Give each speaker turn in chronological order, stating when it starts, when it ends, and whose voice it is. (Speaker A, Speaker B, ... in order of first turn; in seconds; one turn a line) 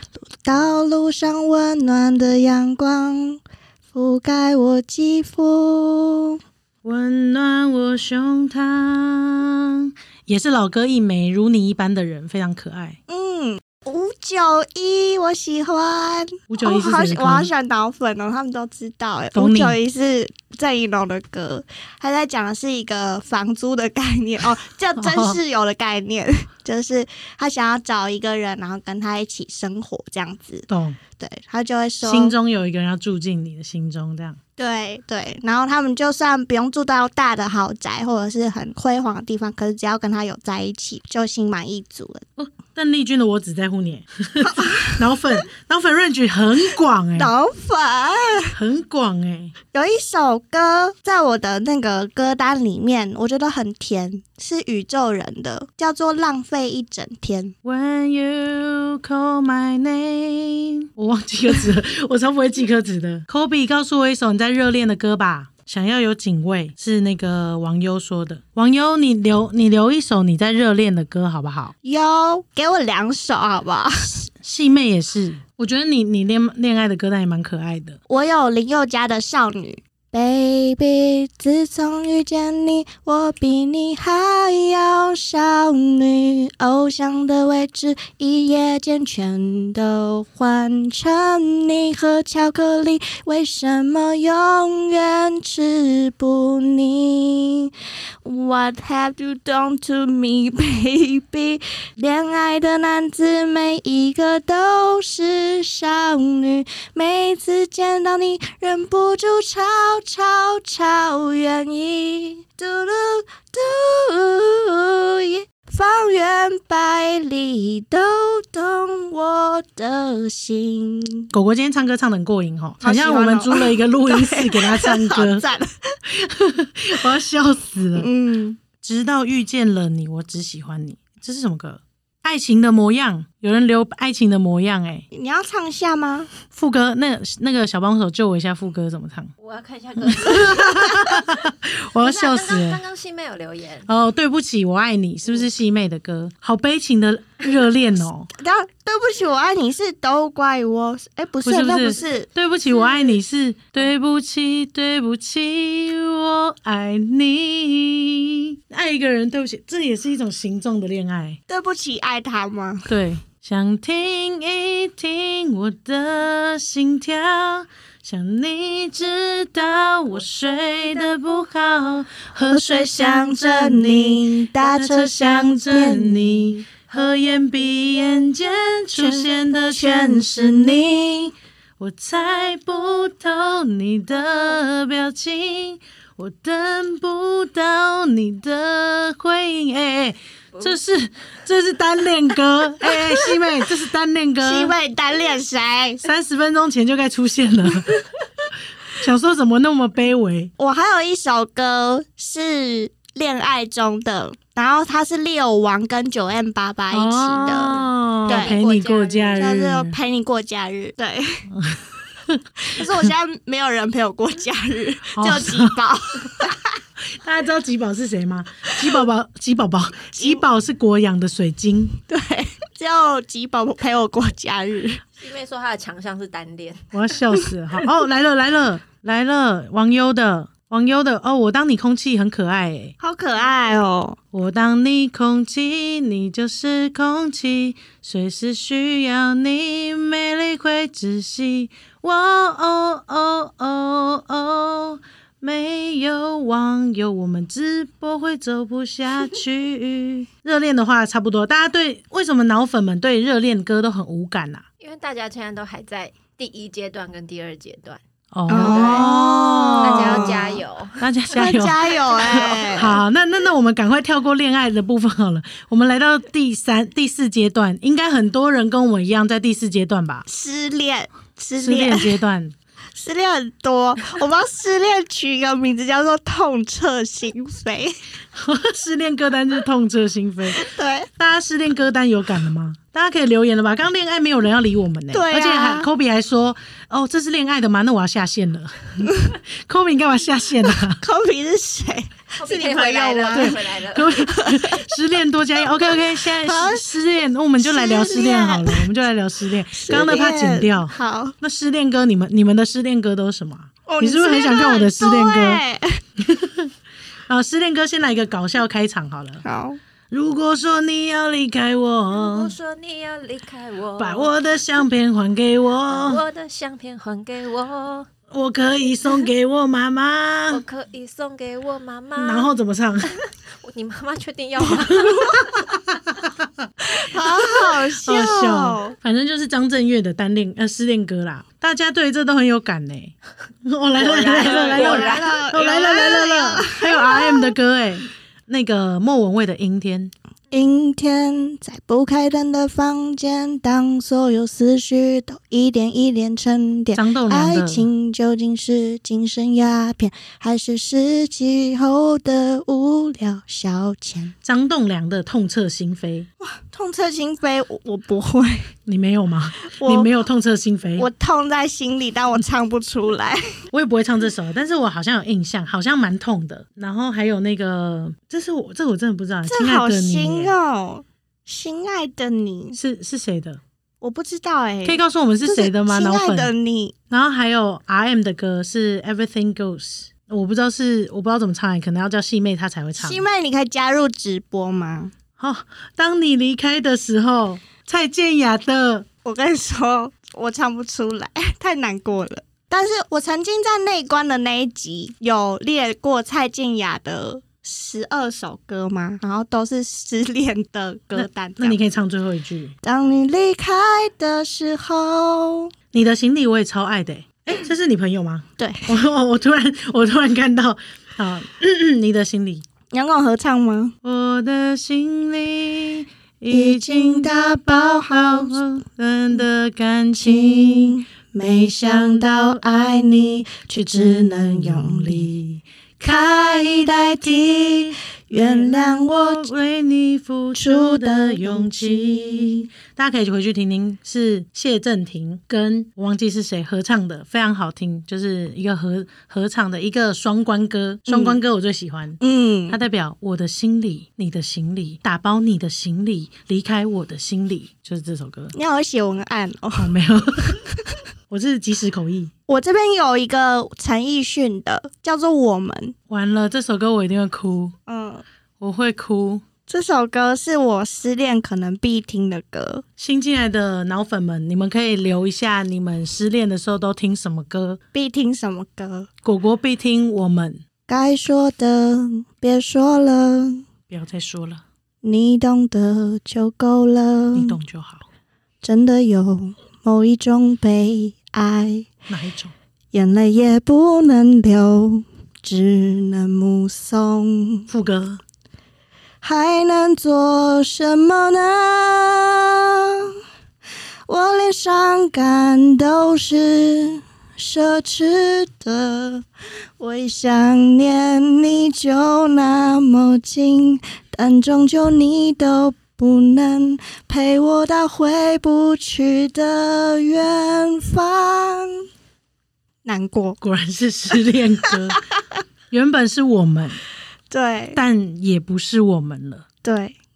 Speaker A: 0.3-3.4
Speaker A: 3.9-6.4
Speaker B: 6.8-13.0
Speaker A: 13.1-30.7
Speaker B: 16.5-17.5
Speaker B: 19.3-19.8
Speaker B: 25.0-25.4
Speaker B: 30.7-31.0
Speaker A: 31.2-32.3
Speaker B: 32.0-34.4
Speaker A: 34.6-42.2
Speaker B: 42.4-47.3
Speaker A: 44.4-45.0
Speaker A: 47.1-48.6
Speaker B: 48.5-49.5
Speaker A: 49.7-57.5
Speaker B: 57.6-71.7
Speaker A: 71.8-74.3
Speaker B: 74.4-78.0
Speaker A: 78.1-97.7
Speaker A: 98.2-121.3
Speaker B: 121.3-125.4
Speaker A: 122.8-126.0
Speaker B: 126.0-128.1
Speaker A: 127.9-128.6
Speaker B: 128.8-135.1
Speaker A: 135.1-136.3
Speaker B: 136.5-139.3
Speaker C: 139.4-140.9
Speaker B: 140.0-142.8
Speaker C: 142.0-143.9
Speaker B: 143.9-148.3
Speaker A: 148.4-152.3
Speaker B: 151.4-161.4
Speaker A: 161.5-162.9
Speaker B: 162.9-180.8
Speaker A: 172.4-176.6
Speaker A: 179.0-181.3
Speaker B: 181.8-194.7
Speaker A: 192.8-193.4
Speaker A: 194.4-196.0
Speaker B: 196.0-198.0
Speaker B: 198.9-200.5
Speaker A: 200.6-208.6
Speaker B: 206.9-209.9
Speaker C: 208.2-209.6
Speaker A: 209.4-211.5
Speaker B: 211.5-213.0
Speaker A: 212.6-216.7
Speaker B: 215.1-215.8
Speaker B: 217.1-222.0
Speaker A: 220.1-220.4
Speaker A: 222.1-225.0
Speaker C: 225.2-226.9
Speaker B: 226.9-232.9
Speaker A: 233.0-234.2
Speaker B: 234.3-254.6
Speaker C: 254.8-261.1
Speaker B: 258.3-260.5
Speaker A: 258.5-260.6
Speaker B: 261.0-270.2
Speaker A: 261.3-263.0
Speaker A: 270.2-272.1
Speaker B: 271.6-272.5
Speaker A: 272.9-278.0
Speaker B: 278.3-280.6
Speaker A: 280.5-281.1
Speaker B: 281.2-291.0
Speaker A: 285.1-285.9
Speaker A: 289.1-289.3
Speaker A: 290.9-293.6
Speaker C: 292.4-294.3
Speaker B: 293.3-305.6
Speaker A: 294.2-294.9
Speaker A: 295.9-296.8
Speaker A: 297.6-298.9
Speaker A: 299.7-301.4
Speaker A: 303.9-306.0
Speaker B: 306.2-306.7
Speaker B: 307.3-309.4
Speaker A: 309.4-309.8
Speaker B: 310.1-312.5
Speaker C: 312.1-314.3
Speaker B: 314.0-316.2
Speaker C: 315.9-318.1
Speaker B: 318.3-320.6
Speaker C: 320.5-322.5
Speaker B: 322.1-323.1
Speaker C: 323.0-325.5
Speaker B: 325.1-325.6
Speaker A: 326.8-328.9
Speaker B: 327.3-340.1
Speaker C: 334.0-335.3
Speaker A: 334.4-337.5
Speaker A: 340.5-354.3
Speaker B: 346.9-347.9
Speaker B: 354.4-356.3
Speaker A: 356.4-358.7
Speaker B: 358.9-361.1
Speaker A: 359.7-360.1
Speaker A: 361.0-363.5
Speaker B: 363.7-370.5
Speaker A: 369.5-372.8
Speaker B: 372.8-373.6
Speaker A: 374.0-376.9
Speaker B: 374.8-376.5
Speaker B: 377.1-383.2
Speaker A: 383.0-385.1
Speaker B: 385.4-389.1
Speaker A: 389.2-401.8
Speaker B: 401.1-402.7
Speaker A: 402.8-405.7
Speaker B: 405.9-412.6
Speaker A: 408.6-408.9
Speaker A: 412.9-413.9
Speaker B: 414.0-421.0
Speaker A: 416.5-418.6
Speaker A: 420.2-429.5
Speaker B: 424.1-425.3
Speaker B: 428.3-448.5
Speaker A: 430.5-432.7
Speaker A: 441.1-441.4
Speaker A: 442.2-442.8
Speaker A: 448.5-449.9
Speaker B: 449.8-450.6
Speaker A: 450.6-450.9
Speaker B: 451.3-452.3
Speaker A: 452.5-455.9
Speaker B: 456.1-457.8
Speaker A: 457.9-458.2
Speaker B: 458.6-459.4
Speaker A: 459.7-462.8
Speaker B: 463.0-467.8
Speaker A: 467.9-469.1
Speaker B: 469.2-470.6
Speaker A: 470.9-473.6
Speaker B: 473.9-474.6
Speaker A: 475.0-477.6
Speaker B: 477.3-478.0
Speaker A: 478.6-481.9
Speaker B: 482.1-482.5
Speaker A: 482.9-487.7
Speaker B: 487.7-488.2
Speaker A: 489.2-493.1
Speaker A: 494.1-499.2
Speaker A: 499.8-511.8
Speaker A: 512.8-513.4
Speaker B: 513.4-515.0
Speaker B: 515.7-516.8
Speaker A: 517.3-517.8
Speaker B: 517.7-519.4
Speaker A: 519.6-520.0